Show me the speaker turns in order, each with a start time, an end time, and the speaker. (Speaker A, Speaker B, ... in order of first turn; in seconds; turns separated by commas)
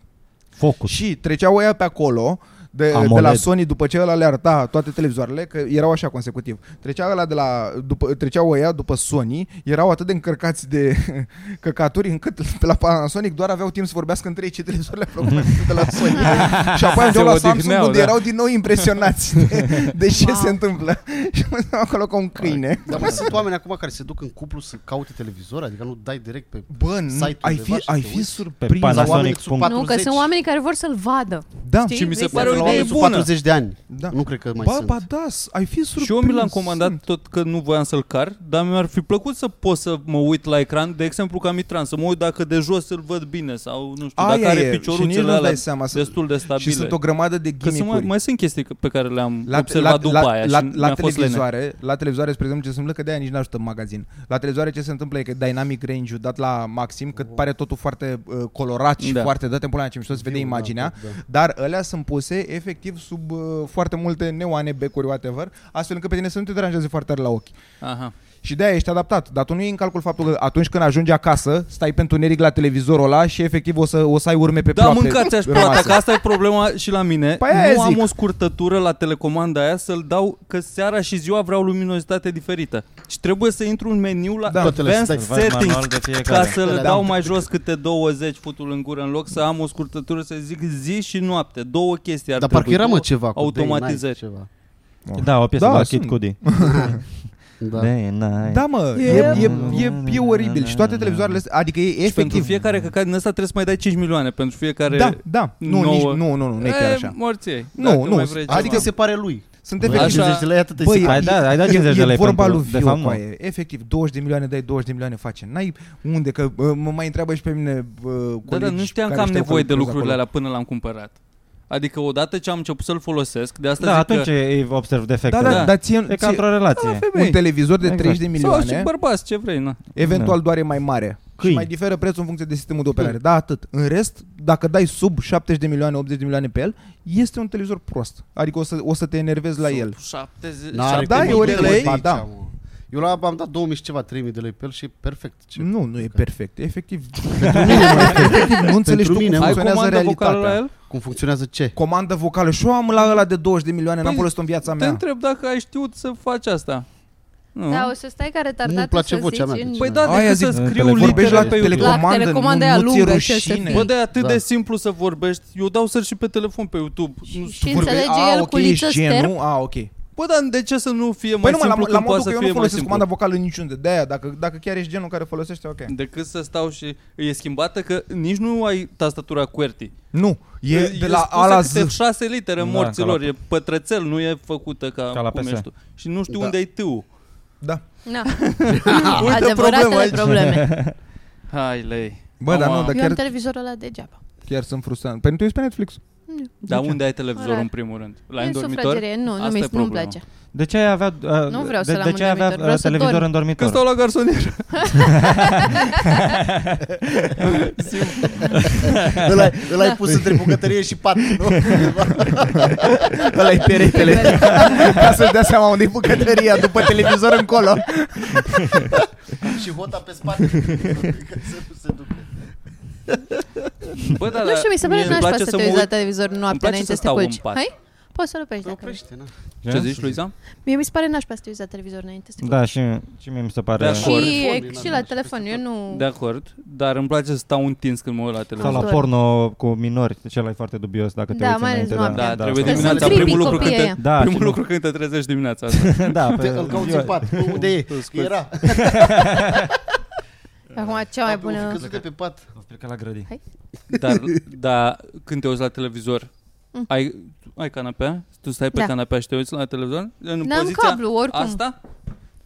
Speaker A: 0.6-0.9, Speaker B: 0.9-23.4, Speaker A: 2.9-3.5, Speaker A: 15.3-16.8, Speaker C: 16.7-18.2, Speaker D: 20.1-20.6, Speaker E: 22.9-30.3, Speaker A: 22.9-23.2, Speaker B: 26.7-29.5, Speaker A: 28.6-29.8, Speaker D: 29.6-33.0, Speaker B: 31.6-32.1, Speaker C: 31.9-33.3, Speaker E: 32.2-35.0, Speaker B: 33.9-37.0, Speaker C: 36.0-47.0, Speaker B: 44.2-48.1, Speaker C: 47.6-51.4, Speaker B: 49.5-67.5, Speaker C: 59.0-59.3, Speaker E: 60.1-61.2, Speaker C: 67.8-68.1, Speaker B: 68.4-76.0, Speaker C: 74.7-94.2, Speaker B: 77.4-78.1, Speaker B: 84.5-84.8, Speaker E: 84.6-85.5, Speaker A: 85.1-86.9, Speaker E: 86.3-87.4, Speaker B: 86.8-87.1, Speaker E: 92.4-94.5, Speaker B: 95.1-97.0, Speaker A: 95.2-96.5, Speaker E: 96.5-97.0, Speaker E: 97.6-97.9, Speaker A: 97.8-101.4, Speaker B: 98.5-102.5, Speaker D: 99.0-99.4, Speaker C: 102.0-108.9, Speaker B: 104.9-107.2, Speaker B: 107.7-109.0, Speaker E: 108.5-111.8, Speaker B: 109.6-120.2, Speaker C: 109.9-110.5, Speaker A: 111.0-113.2, Speaker C: 118.5-121.2, Speaker C: 121.7-124.3, Speaker A: 123.8-127.0, Speaker B: 125.3-126.5, Speaker C: 125.4-125.7, Speaker C: 126.7-127.4, Speaker B: 127.1-128.9, Speaker A: 127.8-128.2, Speaker C: 128.3-129.8, Speaker B: 129.9-139.9, Speaker A: 130.0-130.4, Speaker A: 131.4-131.7, Speaker C: 139.6-141.9, Speaker E: 140.7-146.2, Speaker B: 140.9-142.2, Speaker B: 145.6-150.6, Speaker A: 147.4-148.3, Speaker E: 147.5-149.6, Speaker C: 149.4-150.7, Speaker E: 150.8-151.8, Speaker B: 151.7-155.0, Speaker C: 154.0-156.9, Speaker C: 157.5-157.9, Speaker D: 157.7-160.1, Speaker E: 158.6-160.3, Speaker C: 159.8-162.0, Speaker B: 160.0-163.9, Speaker A: 160.5-161.9, Speaker D: 161.8-163.9, Speaker C: 163.7-168.0, Speaker E: 164.1-164.4, Speaker D: 167.3-169.3, Speaker B: 167.6-169.9, Speaker C: 170.2-173.0, Speaker B: 171.4-175.9, Speaker C: 175.9-179.9, Speaker B: 180.1-182.0, Speaker C: 180.7-187.1, Speaker A: 182.6-183.2, Speaker A: 185.1-185.7, Speaker E: 186.3-186.5, Speaker D: 188.0-190.7, Speaker C: 188.3-190.4, Speaker E: 188.8-189.2, Speaker A: 190.3-190.9, Speaker C: 191.5-193.0, Speaker B: 192.4-193.2, Speaker D: 192.9-194.2, Speaker B: 194.5-196.0, Speaker D: 196.3-196.5, Speaker C: 196.6-200.2, Speaker D: 197.3-197.7, Speaker D: 198.4-200.2, Speaker A: 200.5-203.8, Speaker D: 201.5-203.3, Speaker C: 203.6-205.8, Speaker D: 204.8-206.0, Speaker A: 205.0-207.5, Speaker C: 207.4-208.8, Speaker E: 208.3-214.0, Speaker A: 208.8-209.3, Speaker A: 211.5-211.8, Speaker B: 212.3-219.0, Speaker D: 213.9-214.7, Speaker A: 214.3-214.9, Speaker E: 219.4-222.5, Speaker C: 224.1-227.6, Speaker D: 224.4-229.0, Speaker E: 228.6-230.2, Speaker A: 229.6-230.1, Speaker C: 229.7-230.3, Speaker D: 230.6-232.8, Speaker A: 232.4-234.3, Speaker C: 233.8-234.9, Speaker E: 233.8-235.6, Speaker D: 233.9-236.0, Speaker C: 235.9-238.9, Speaker D: 238.6-239.0, Speaker A: 238.6-244.6, Speaker D: 241.3-244.0, Speaker C: 242.1-248.4, Speaker A: 245.7-247.7, Speaker E: 246.3-249.6, Speaker A: 248.6-249.7, Speaker D: 250.7-251.8, Speaker E: 251.2-252.5, Speaker A: 252.5-253.3, Speaker C: 253.9-256.3, Speaker E: 253.9-254.3, Speaker C: 256.9-261.8, Speaker D: 260.4-261.6